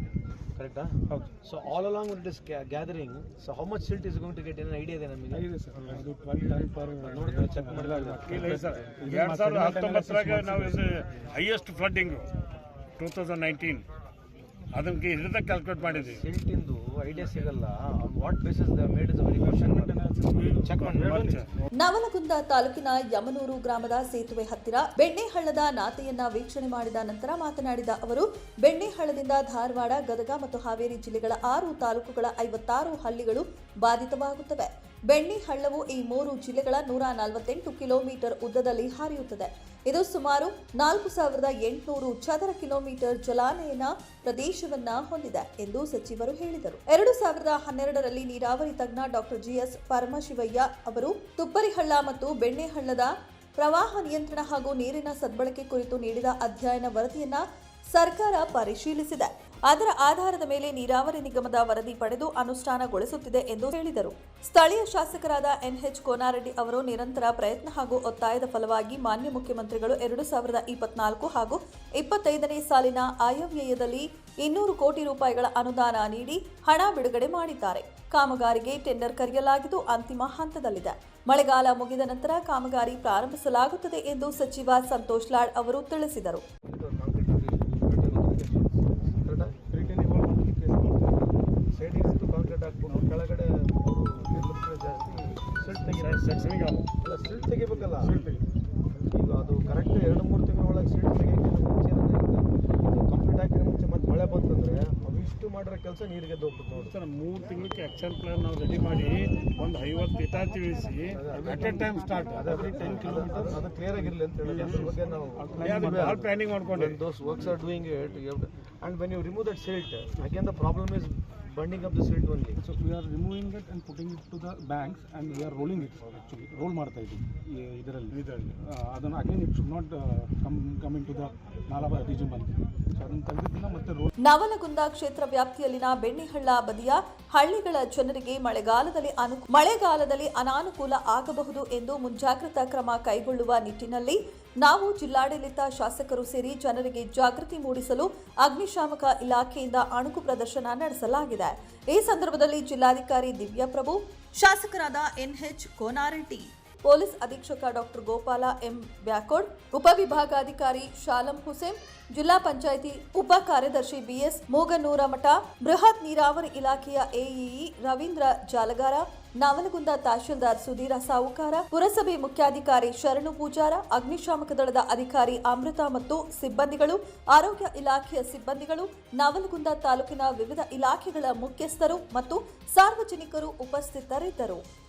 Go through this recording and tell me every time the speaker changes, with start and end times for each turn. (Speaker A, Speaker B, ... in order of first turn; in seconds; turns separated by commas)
Speaker A: 0.6-5.5, Speaker B: 5.3-11.2, Speaker A: 7.0-8.9, Speaker C: 8.2-12.3, Speaker C: 13.0-13.8, Speaker C: 14.7-16.2, Speaker A: 15.8-20.0, Speaker B: 19.3-21.5, Speaker A: 20.6-21.4, Speaker C: 20.6-21.7, Speaker D: 21.8-86.4, Speaker A: 86.6-89.6, Speaker B: 89.7-91.3, Speaker A: 91.7-98.2, Speaker C: 95.9-96.9, Speaker B: 97.9-98.4, Speaker A: 98.9-106.9, Speaker C: 106.7-113.0, Speaker A: 111.1-122.6, Speaker B: 111.4-111.8, Speaker B: 112.4-116.3, Speaker C: 115.6-117.0, Speaker B: 122.6-134.1, Speaker D: 134.2-184.6